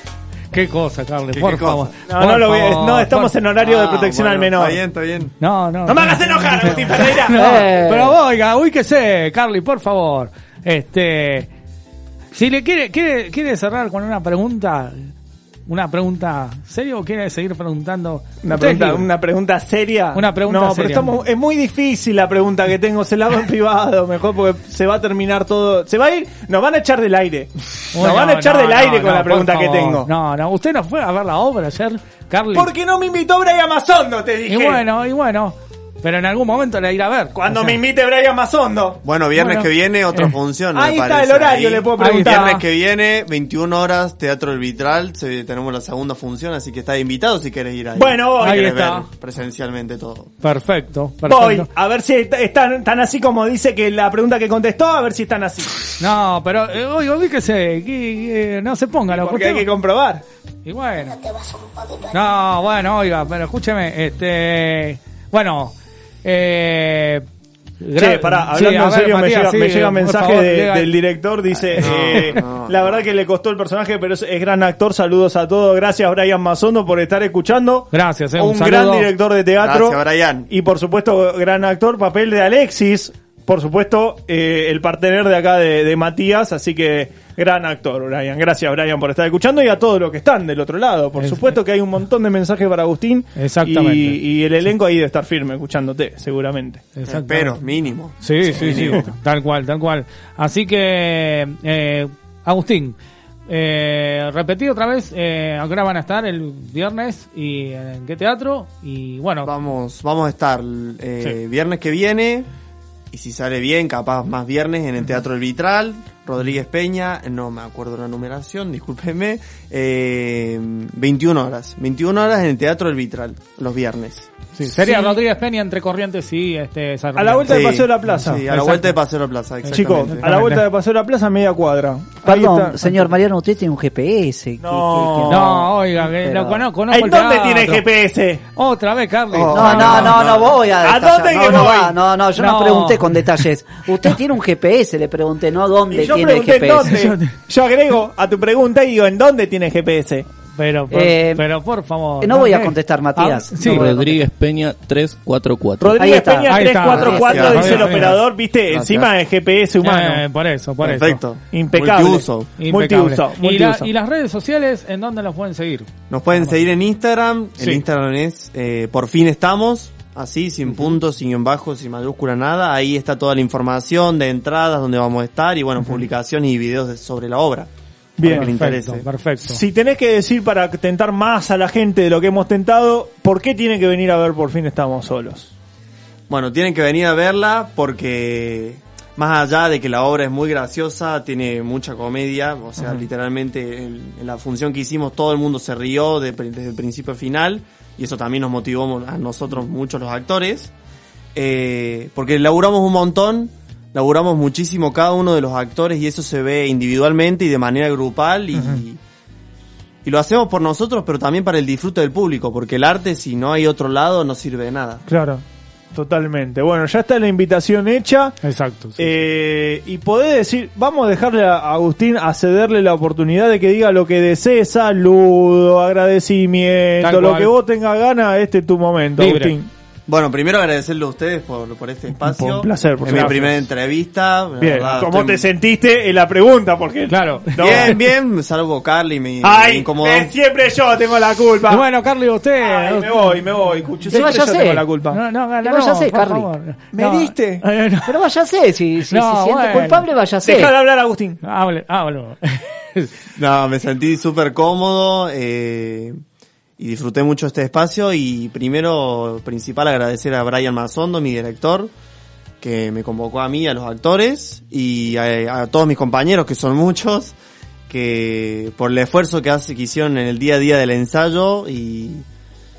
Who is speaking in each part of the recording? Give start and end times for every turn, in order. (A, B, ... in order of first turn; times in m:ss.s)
0:00.5-0:03.4 A
0:01.3-0:01.9 B
0:02.0-0:04.8 C
0:03.6-0:05.3 B
0:05.4-0:11.5 A
0:05.9-0:07.5 C
0:07.3-0:08.2 D
0:12.3-0:15.1 A
0:15.7-0:19.0 A
0:18.4-0:30.1 C
0:20.1-0:21.1 A
0:27.9-0:32.7 A
0:32.5-0:34.8 C
0:34.5-0:37.8 A
0:37.3-0:39.0 C
0:39.0-0:50.3 B
0:39.3-0:40.3 A
0:40.7-0:42.6 C
0:42.0-0:42.6 A
0:47.9-0:48.7 C
0:48.4-0:49.1 A
0:50.4-0:51.7 A
0:51.2-0:55.8 C
0:56.0-0:59.7 A
0:59.1-1:00.2 C
1:00.6-1:01.2 A
1:02.1-1:07.2 A
1:07.8-1:10.9 A
1:08.0-1:36.8 C
1:11.7-1:12.4 A
1:11.7-1:13.0 B
1:17.9-1:19.1 A
1:19.6-1:20.5 B
1:31.2-1:31.6 A
1:33.4-1:34.2 A
1:37.0-1:37.6 A
1:37.0-1:39.0 B
1:38.2-1:43.0 A
1:38.5-1:39.0 C
1:43.5-1:49.5 A
1:49.4-1:52.5 B
1:53.1-2:04.3 B
2:04.6-2:09.0 A
2:04.8-2:05.2 C
2:07.2-2:08.5 C
2:07.5-2:10.3 B
2:09.6-2:10.6 A
2:09.7-2:13.1 C
2:12.2-2:16.6 D
2:14.6-2:15.6 C
2:15.3-2:17.8 A
2:16.9-2:18.4 C
2:18.5-2:20.3 A
2:19.3-2:20.6 B
2:19.5-2:27.0 D
2:20.8-2:22.0 C
2:22.4-2:23.2 A
2:25.9-2:30.2 C
2:26.8-2:27.3 A
2:30.5-2:34.0 A
2:30.9-2:31.4 D
2:32.2-2:34.2 D
2:33.6-2:36.0 E
2:35.8-2:40.2 C
2:36.0-2:37.7 D
2:36.5-2:38.2 A
2:37.1-2:38.1 B
2:38.7-2:39.1 B
2:39.8-2:41.2 A
2:40.8-2:42.5 B
2:41.5-2:43.9 C
2:42.6-2:46.6 A
2:46.1-2:57.7 B
2:58.2-2:58.5 C
2:58.2-2:59.1 B
2:58.2-2:59.6 A
2:59.4-3:05.5 C
3:06.3-3:20.7 B
3:12.8-3:13.0 C
3:21.3-3:29.0 B
3:28.5-3:28.8 C
3:30.0-3:35.0 B
3:35.0-3:38.4 C
3:38.4-3:39.2 A
3:39.0-3:49.7 C
3:47.0-3:47.5 A
3:49.2-3:49.5 A
3:50.1-3:55.5 B
3:52.1-3:53.6 C
3:53.0-3:53.6 A
3:54.6-3:58.0 C
3:57.1-3:58.0 A
3:57.6-4:00.3 B
3:59.4-4:01.8 C
4:01.7-4:03.4 A
4:02.6-4:05.2 C
4:04.0-4:08.1 A
4:04.1-4:04.8 D
4:05.6-4:06.5 D
4:06.9-4:07.6 C
4:08.0-4:10.7 D
4:09.1-4:10.0 A
4:10.4-4:11.4 C
4:11.4-4:13.1 A
4:13.4-4:16.2 B
4:16.8-4:21.9 B
4:22.6-4:27.4 B
4:27.9-4:32.2 B